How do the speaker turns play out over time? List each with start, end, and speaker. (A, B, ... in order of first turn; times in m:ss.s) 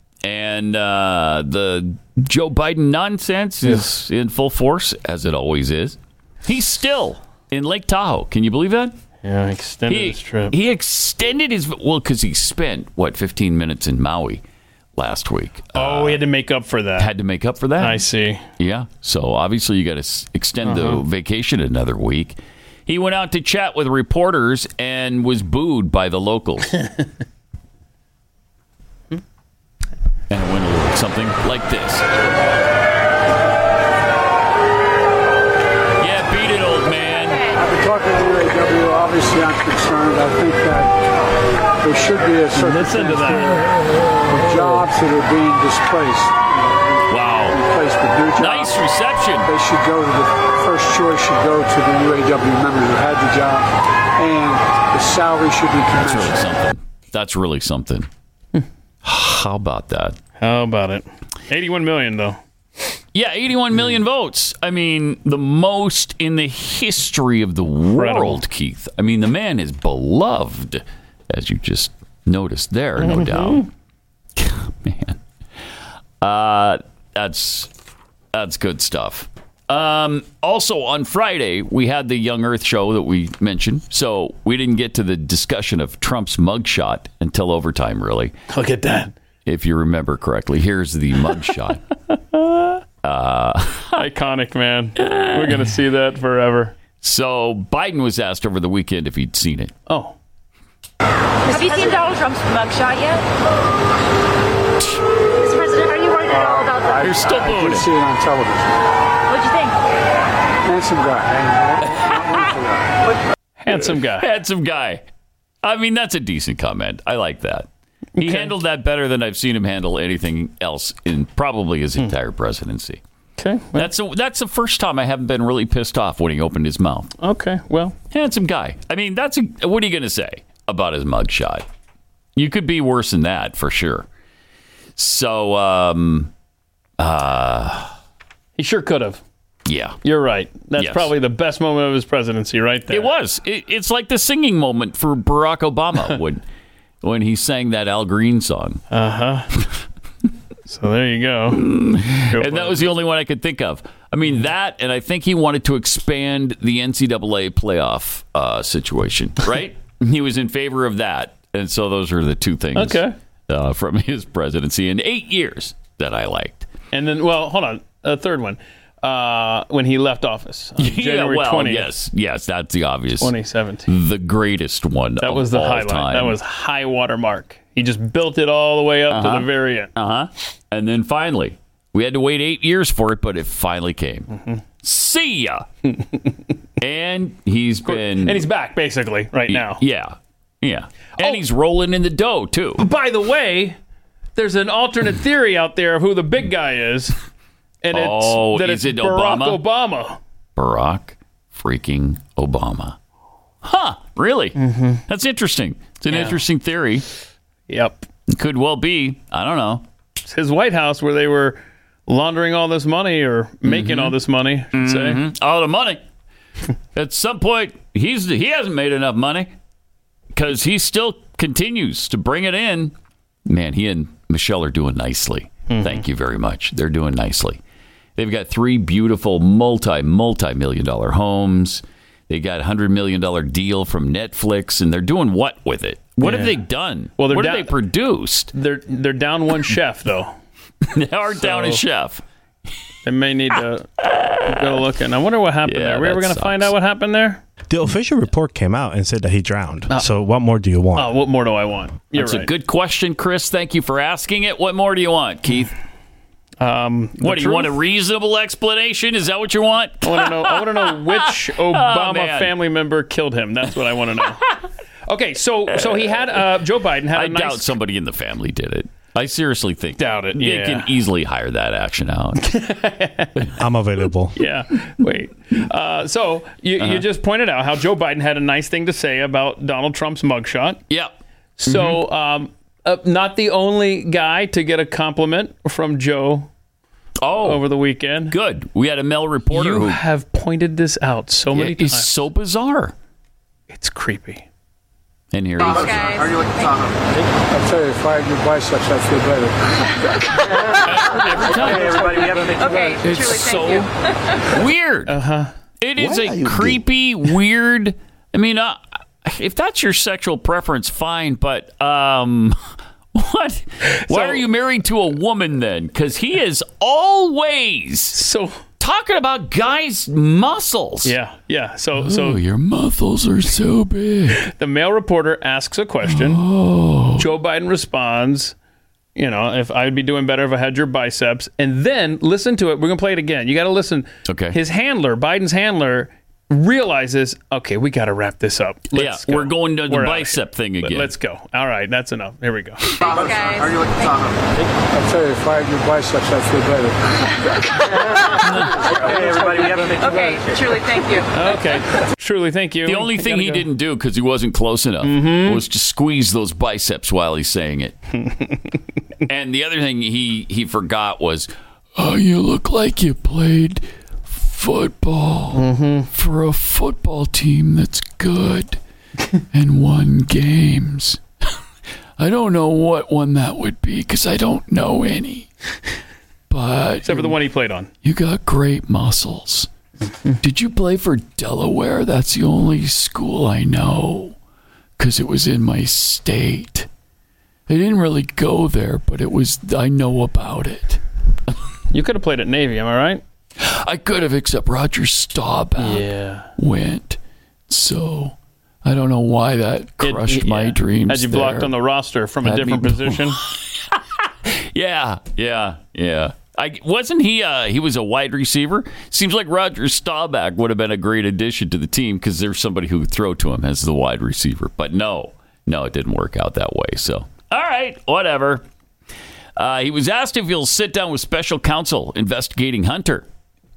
0:00.2-0:08.9 A
0:03.6-0:04.0 B
0:09.2-0:10.6 B
0:09.9-0:14.4 A
0:15.0-0:16.2 A
0:15.7-0:17.1 B
0:17.0-0:18.0 A
0:17.8-0:18.4 B
0:18.6-0:26.8 A
0:20.6-0:21.0 B
0:30.3-0:32.0 A
0:36.0-0:37.5 A
0:37.6-0:40.9 C
0:41.8-0:43.7 C
0:42.6-0:43.6 B
0:44.2-0:48.7 C
0:47.1-0:47.6 A
0:48.4-0:49.5 A
0:49.5-0:56.4 C
0:56.0-0:58.1 A
0:59.0-1:00.2 A
1:00.4-1:02.4 B
1:03.1-1:13.7 A
1:08.0-1:08.4 B
1:13.0-1:13.7 B
1:14.4-1:15.2 A
1:16.2-1:17.7 A
1:18.3-1:28.3 A
1:28.5-1:29.1 B
1:29.5-1:31.8 A
1:32.4-1:32.7 B
1:33.0-1:34.0 A
1:34.0-1:36.7 B
1:35.0-1:35.6 A
1:37.0-1:39.7 A
1:39.9-1:40.2 B
1:41.5-1:43.3 D
1:45.4-1:47.1 D
1:46.3-1:48.9 C
1:47.0-1:47.9 A
1:49.3-1:49.8 D
1:50.6-1:53.0 C
1:53.6-1:54.3 B
1:53.7-1:55.0 A
1:55.6-1:57.7 A
1:58.2-1:58.5 B
1:58.2-2:03.0 A
2:03.4-2:03.9 B
2:03.8-2:07.1 A
2:07.2-2:08.0 B
2:08.1-2:11.6 A
2:12.4-2:14.1 A
2:15.0-2:16.3 A
2:17.0-2:17.9 A
2:18.6-2:19.2 B
2:19.7-2:20.0 A
2:20.0-2:23.1 B
2:20.8-2:21.1 A
2:22.9-2:26.4 A
2:27.0-2:28.8 A
2:28.9-2:29.5 B
2:30.7-2:31.7 B
2:31.5-2:46.7 A
2:32.3-2:32.8 B
2:42.8-2:43.2 B
2:46.9-2:51.9 B
2:50.8-2:53.3 A
2:53.2-2:53.9 B
2:53.9-2:56.4 A
2:55.2-2:59.9 B
2:59.1-3:04.3 A
3:04.3-3:04.6 B
3:04.8-3:05.6 A
3:06.8-3:08.5 A
3:07.8-3:09.8 B
3:09.5-3:12.8 A
3:12.8-3:13.8 B
3:14.4-3:17.1 B
3:17.8-3:20.2 B
3:17.9-3:19.6 A
3:20.6-3:23.0 A
3:23.6-3:27.0 A
3:24.6-3:25.0 B
3:26.1-3:26.4 B
3:27.7-3:28.1 B
3:28.3-3:29.8 A
3:30.2-3:35.2 B
3:33.6-3:34.2 A
3:34.7-3:36.0 A
3:37.0-3:39.5 A
3:40.3-3:42.9 A
3:43.5-3:47.6 A
3:45.7-3:46.0 B
3:48.2-3:58.5 A
3:56.2-3:56.6 B
3:57.2-3:57.7 B
3:58.5-4:00.3 B
4:00.9-4:02.2 A
4:01.4-4:01.8 B
4:03.0-4:03.9 B
4:04.0-4:04.8 A
4:04.4-4:07.4 B
4:05.6-4:06.7 A
4:07.7-4:11.2 E
4:11.0-4:12.5 B
4:12.2-4:15.7 A
4:16.6-4:17.7 B
4:17.2-4:22.5 A
4:20.0-4:24.5 B
4:25.1-4:27.7 B
4:25.9-4:26.4 A
4:27.1-4:32.4 A
4:30.0-4:30.9 B
4:32.4-4:33.4 B
4:33.6-4:34.4 E
4:34.4-4:40.8 B
4:36.8-4:37.0 A
4:41.6-4:46.5 B
4:41.7-4:42.0 A
4:47.2-4:47.6 A
4:47.4-4:48.4 B
4:48.3-4:50.0 A
4:49.5-4:52.1 B
4:51.5-4:53.0 A
4:53.7-4:54.5 B
4:55.3-4:56.2 A
4:55.6-4:56.9 D
4:57.5-4:59.6 C
5:00.8-5:01.7 B
5:00.9-5:02.3 A
5:02.2-5:03.0 C
5:02.4-5:03.9 D
5:03.0-5:03.9 A
5:04.5-5:05.2 A
5:05.1-5:05.5 B
5:05.8-5:12.6 A
5:13.2-5:18.2 A
5:13.8-5:14.4 B
5:18.1-5:18.6 B
5:18.8-5:21.2 A
5:21.0-5:22.4 B
5:22.0-5:24.4 A
5:24.4-5:26.4 B
5:26.0-5:27.3 A
5:27.2-5:28.5 B
5:29.2-5:43.0 B
5:34.3-5:34.6 A
5:38.9-5:41.1 A
5:43.0-5:44.2 D
5:44.9-5:47.0 C
5:48.4-5:48.8 A
5:48.6-5:50.5 C
5:50.0-5:51.3 D
5:51.3-5:53.7 B
5:52.9-5:58.0 A
5:55.0-5:55.6 B
5:58.2-5:58.6 B
5:59.3-6:08.8 A
6:05.5-6:06.1 B
6:09.5-6:11.2 A
6:12.2-6:15.5 A
6:16.5-6:17.4 A
6:17.0-6:17.9 B
6:18.0-6:19.7 A
6:20.4-6:24.4 A
6:25.0-6:26.9 A
6:27.7-6:31.0 A
6:31.9-6:33.2 B
6:33.6-6:36.1 A
6:35.8-6:36.5 B
6:36.6-6:37.2 A
6:37.7-6:41.8 A
6:40.0-6:43.4 B
6:42.4-6:58.6 A
6:59.6-7:03.3 A